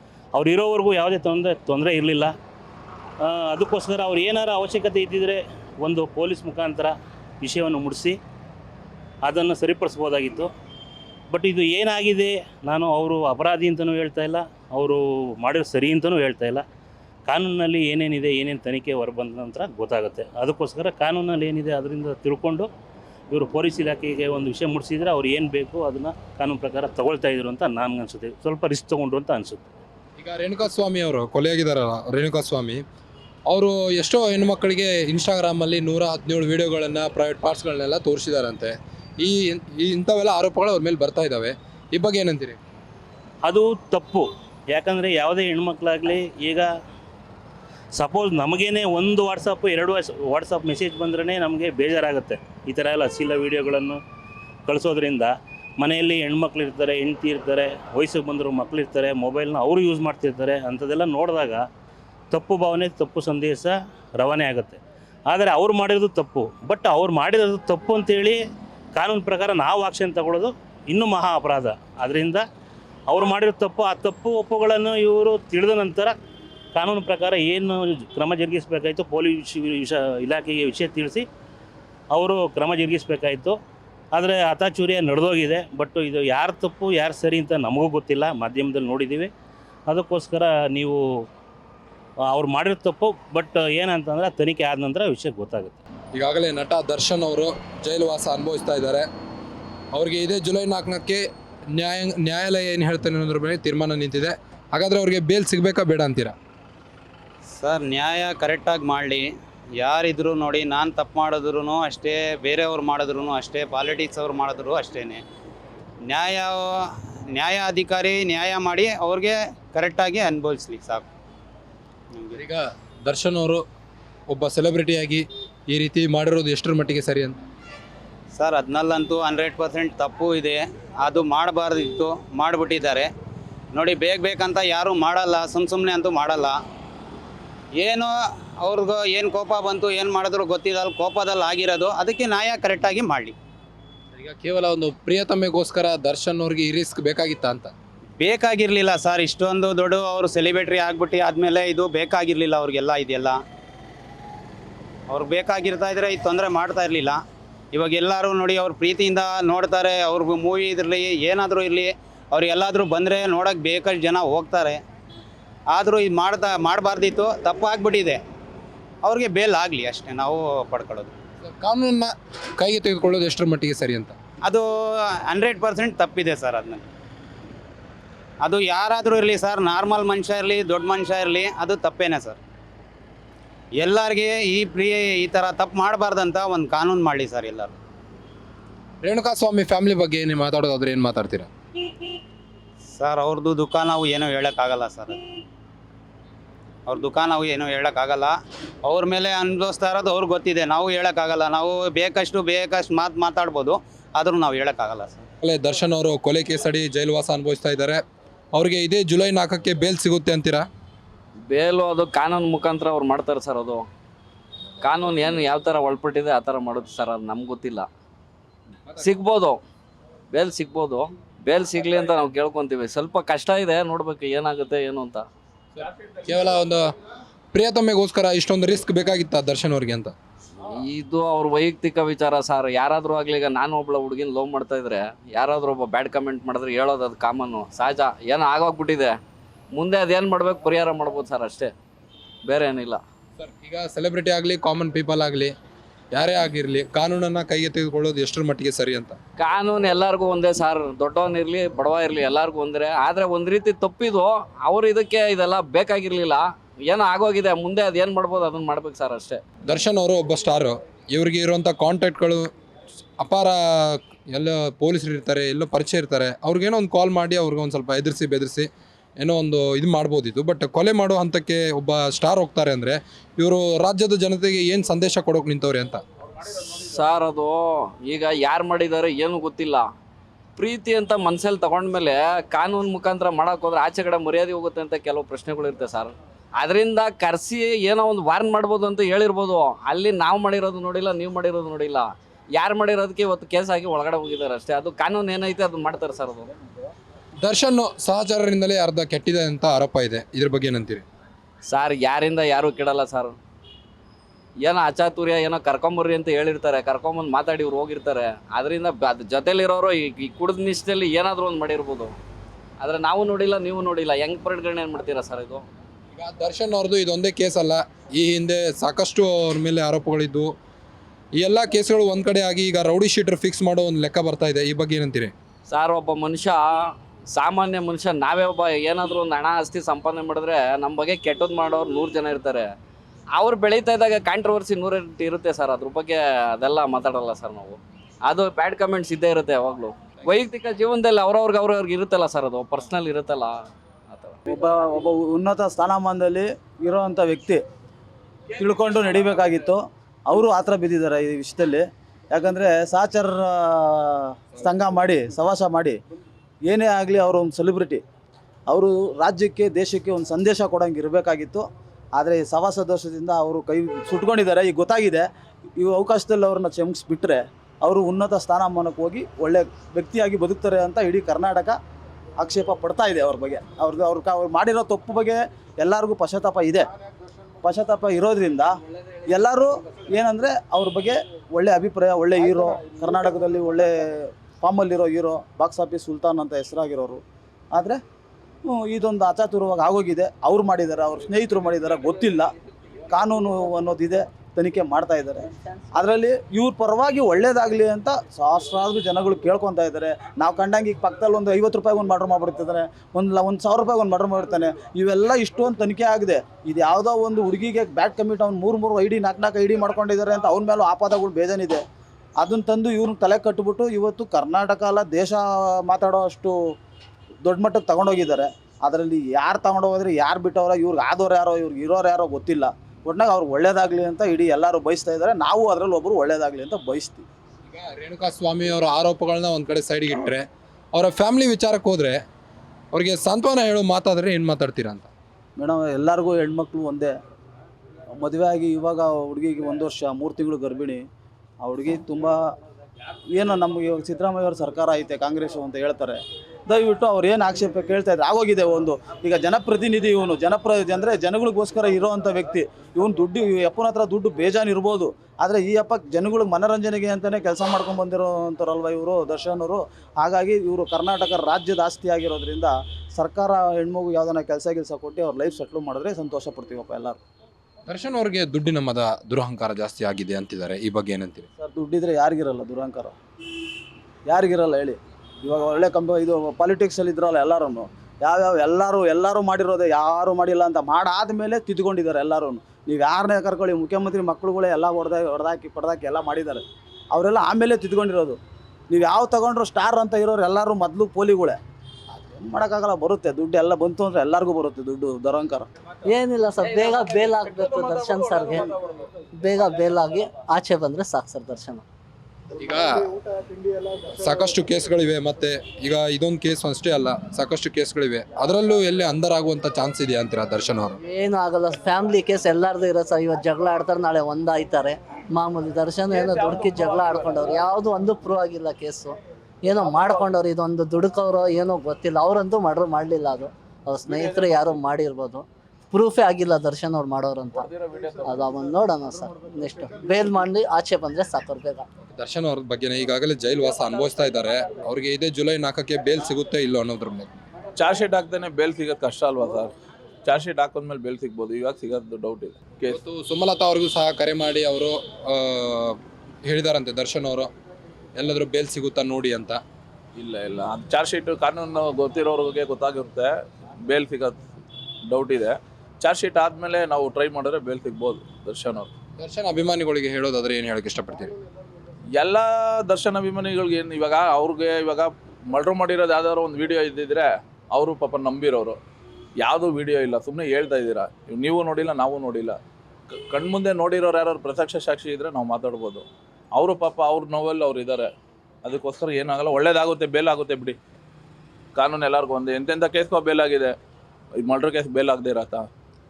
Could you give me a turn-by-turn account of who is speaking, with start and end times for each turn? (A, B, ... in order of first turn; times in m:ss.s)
0:00.4-0:02.3 A
0:03.2-0:08.2 A
0:09.2-0:10.5 A
0:11.3-0:16.6 A
0:17.3-0:22.7 A
0:23.3-0:29.7 A
0:30.2-0:32.8 B
0:33.5-0:42.6 B
0:43.4-0:46.7 A
0:48.0-0:54.0 A
0:54.7-1:01.7 A
1:02.3-1:08.4 A
1:09.0-1:12.4 A
1:13.1-1:16.2 A
1:16.8-1:21.3 A
1:22.1-1:23.6 A
1:24.1-1:29.3 A
1:29.9-1:31.2 A
1:32.3-1:35.8 A
1:36.1-1:39.1 B
1:39.9-1:46.4 B
1:47.6-1:55.2 C
1:56.1-2:01.0 C
2:02.4-2:03.6 B
2:04.3-2:07.4 B
2:08.4-2:13.1 C
2:13.7-2:16.6 C
2:17.8-2:23.4 C
2:24.2-2:27.7 B
2:28.2-2:33.4 C
2:35.1-2:37.2 C
2:37.7-2:44.8 C
2:45.7-2:48.2 C
2:49.0-2:51.2 C
2:51.4-2:54.2 B
2:54.5-2:56.9 C
2:58.4-3:02.4 C
3:03.8-3:07.8 C
3:09.0-3:11.5 B
3:13.0-3:15.2 C
3:16.9-3:25.3 C
3:25.4-3:28.0 B
3:28.5-3:30.7 B
3:31.5-3:33.8 D
3:34.8-3:37.9 D
3:39.0-3:39.6 D
3:40.3-3:45.3 D
3:45.8-3:46.8 B
3:47.5-3:50.1 B
3:50.6-3:59.2 D
3:59.7-4:01.7 D
4:02.4-4:03.0 D
4:03.4-4:05.5 B
4:06.1-4:09.2 B
4:09.4-4:19.4 D
4:19.7-4:22.5 B
4:23.2-4:28.7 B
4:29.2-4:36.0 B
4:36.7-4:39.9 D
4:40.6-4:56.5 D
4:57.4-5:01.0 B
5:01.7-5:03.4 D
5:04.6-5:12.2 D
5:12.8-5:15.6 D
5:16.1-5:20.5 B
5:21.4-5:25.3 B
5:25.7-5:32.7 D
5:33.4-5:43.6 D
5:44.1-5:44.4 D
5:44.5-5:47.6 E
5:48.6-5:56.0 E
5:56.7-5:58.0 E
5:58.7-6:01.6 E
6:02.2-6:05.2 E
6:05.8-6:11.8 E
6:12.4-6:16.9 E
6:17.6-6:18.7 E
6:19.3-6:28.0 E
6:28.6-6:32.5 E
6:33.1-6:51.8 E
6:52.4-6:56.6 E
6:57.4-7:07.3 E
7:07.7-7:12.2 B
7:12.9-7:15.1 B
7:15.6-7:17.1 E
7:18.2-7:21.0 E
7:21.6-7:22.5 E
7:23.4-7:47.2 E
7:47.9-7:51.5 B
7:51.6-7:53.2 E
7:54.3-8:08.4 E
8:08.9-8:11.6 E
8:12.2-8:15.7 E
8:16.1-8:18.7 F
8:17.5-8:18.6 G
8:19.4-8:21.8 F
8:22.6-8:23.1 B
8:24.1-8:31.0 B
8:31.0-8:47.7 F
8:44.1-8:44.7 G
8:47.6-8:48.2 G
8:48.3-8:51.8 F
8:52.1-8:57.3 B
8:57.8-8:59.7 G
9:00.2-9:03.0 G
9:02.9-9:07.5 B
9:08.2-9:09.6 B
9:10.2-9:14.4 G
9:15.1-9:18.9 G
9:19.2-9:21.3 B
9:22.2-9:28.8 G
9:29.4-9:32.6 G
9:33.3-9:38.1 G
9:38.6-9:40.8 G
9:41.8-9:43.8 G
9:44.4-9:45.7 G